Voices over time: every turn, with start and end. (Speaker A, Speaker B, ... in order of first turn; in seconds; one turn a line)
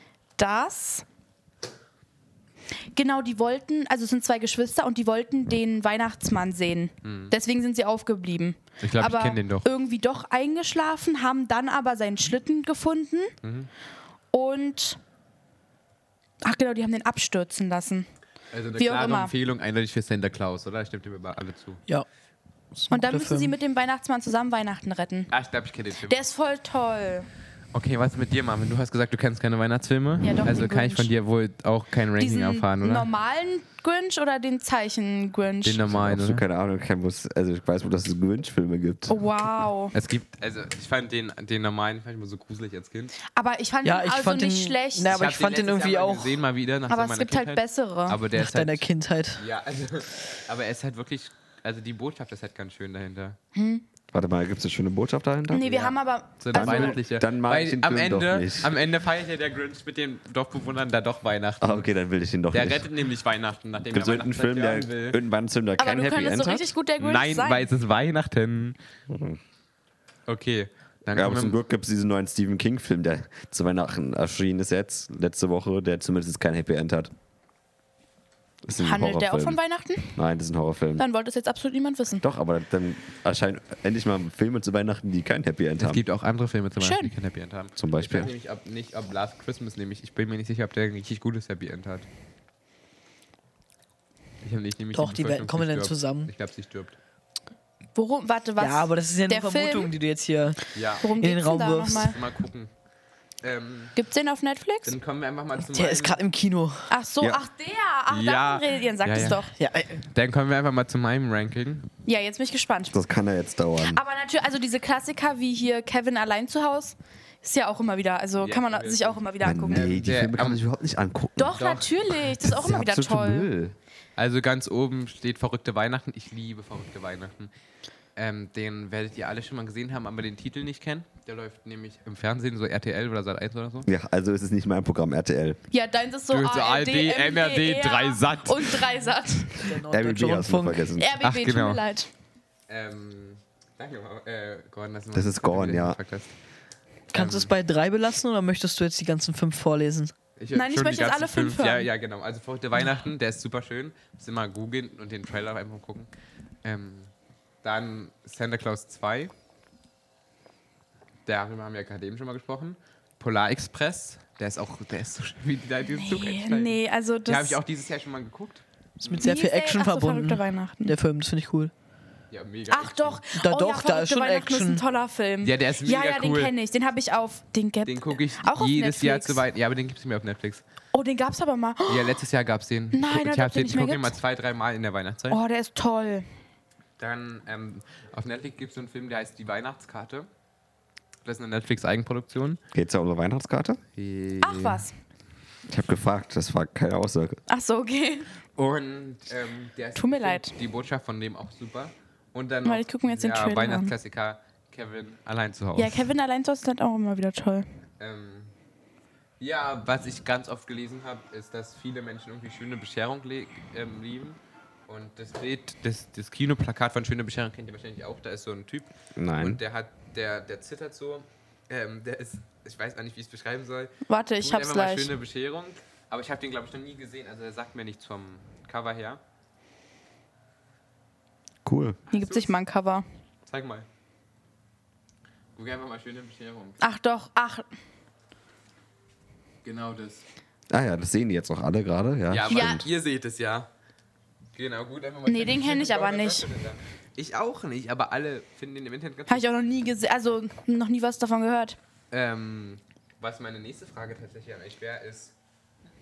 Speaker A: 0.4-1.1
Speaker A: 2.9-13.3
Speaker B: 7.0-7.3
Speaker B: 8.8-9.7
Speaker B: 13.4-13.7
Speaker A: 14.3-15.0
Speaker A: 16.4-18.1
Speaker B: 18.5-21.8
Speaker A: 18.8-19.3
Speaker C: 22.7-23.5
Speaker A: 22.9-25.3
Speaker B: 25.3-26.2
Speaker A: 26.1-27.3
Speaker B: 27.7-33.1
Speaker A: 30.2-31.1
Speaker A: 32.2-35.8
Speaker B: 35.6-36.4
Speaker D: 35.9-39.2
Speaker A: 39.1-39.9
Speaker B: 39.9-43.1
Speaker A: 43.3-45.2
Speaker C: 43.8-46.4
Speaker B: 45.1-48.9
Speaker A: 46.9-48.2
Speaker C: 48.4-49.4
Speaker B: 49.4-53.4
Speaker A: 53.5-53.8
Speaker D: 54.1-55.9
Speaker A: 55.5-57.0
Speaker B: 55.6-61.9
Speaker D: 56.5-58.7
Speaker D: 61.6-62.9
Speaker B: 62.5-65.2
Speaker D: 63.9-66.7
Speaker A: 65.8-67.7
Speaker B: 67.0-68.8
Speaker D: 69.1-69.4
Speaker B: 70.3-71.6
Speaker D: 71.1-77.1
Speaker D: 78.7-79.6
Speaker A: 78.8-80.1
Speaker D: 80.2-81.0
Speaker A: 81.0-82.2
Speaker D: 82.2-86.0
Speaker B: 85.8-92.1
Speaker A: 86.8-87.1
Speaker D: 87.8-88.3
Speaker B: 94.4-97.0
Speaker C: 94.9-96.3
Speaker A: 98.0-99.9
Speaker C: 98.6-100.6
Speaker B: 100.7-101.1
Speaker A: 101.0-102.2
Speaker C: 101.2-102.1
Speaker B: 101.9-102.7
Speaker B: 103.4-104.0
Speaker A: 104.0-104.9
Speaker B: 104.8-106.2
Speaker C: 105.7-106.9
Speaker A: 106.9-109.5
Speaker B: 108.1-109.5
Speaker C: 109.6-110.0
Speaker B: 110.1-111.9
Speaker A: 112.0-113.0
Speaker D: 112.9-114.0
Speaker A: 113.8-120.0
Speaker B: 118.4-120.6
Speaker D: 119.4-121.7
Speaker A: 121.4-123.5
Speaker B: 121.6-121.9
Speaker D: 122.4-123.8
Speaker B: 124.2-127.5
Speaker B: 128.2-133.9
Speaker D: 133.9-135.6
Speaker A: 135.7-139.7
Speaker B: 136.3-138.9
Speaker C: 139.6-140.9
Speaker D: 139.9-141.2
Speaker A: 141.0-142.1
Speaker B: 141.2-141.8
Speaker B: 142.7-146.3
Speaker D: 145.1-146.0
Speaker B: 147.1-147.5
Speaker C: 147.1-150.1
Speaker B: 150.4-156.1
Speaker A: 150.5-151.9
Speaker B: 156.6-157.1
Speaker B: 157.6-159.3
Speaker B: 161.3-169.3
Speaker A: 165.9-167.6
Speaker C: 169.0-171.7
Speaker A: 169.2-170.9
Speaker B: 172.3-173.2
Speaker A: 172.7-179.4
Speaker C: 173.4-174.8
Speaker B: 175.4-176.5
Speaker B: 177.8-180.6
Speaker A: 180.9-182.2
Speaker B: 181.9-185.4
Speaker A: 182.9-184.2
Speaker A: 185.3-186.3
Speaker B: 187.0-190.3
Speaker B: 191.2-192.6
Speaker D: 192.7-193.8
Speaker B: 194.0-194.8
Speaker A: 194.4-194.9
Speaker D: 195.7-197.4
Speaker A: 197.5-198.3
Speaker B: 198.6-206.1
Speaker A: 200.0-200.5
Speaker A: 202.7-203.9
Speaker A: 205.8-207.7
Speaker B: 208.0-208.5
Speaker B: 209.4-229.2
Speaker D: 219.2-219.6
Speaker A: 224.1-225.1
Speaker D: 231.7-232.0
Speaker B: 232.1-232.6
Speaker A: 232.1-233.1
Speaker B: 233.5-233.9
Speaker B: 235.6-236.8
Speaker A: 236.8-237.7
Speaker B: 239.6-240.2
Speaker D: 240.7-242.9
Speaker B: 242.3-243.7
Speaker A: 242.5-242.8
Speaker B: 244.6-249.4
Speaker A: 245.3-246.5
Speaker A: 249.3-251.8
Speaker B: 252.1-255.3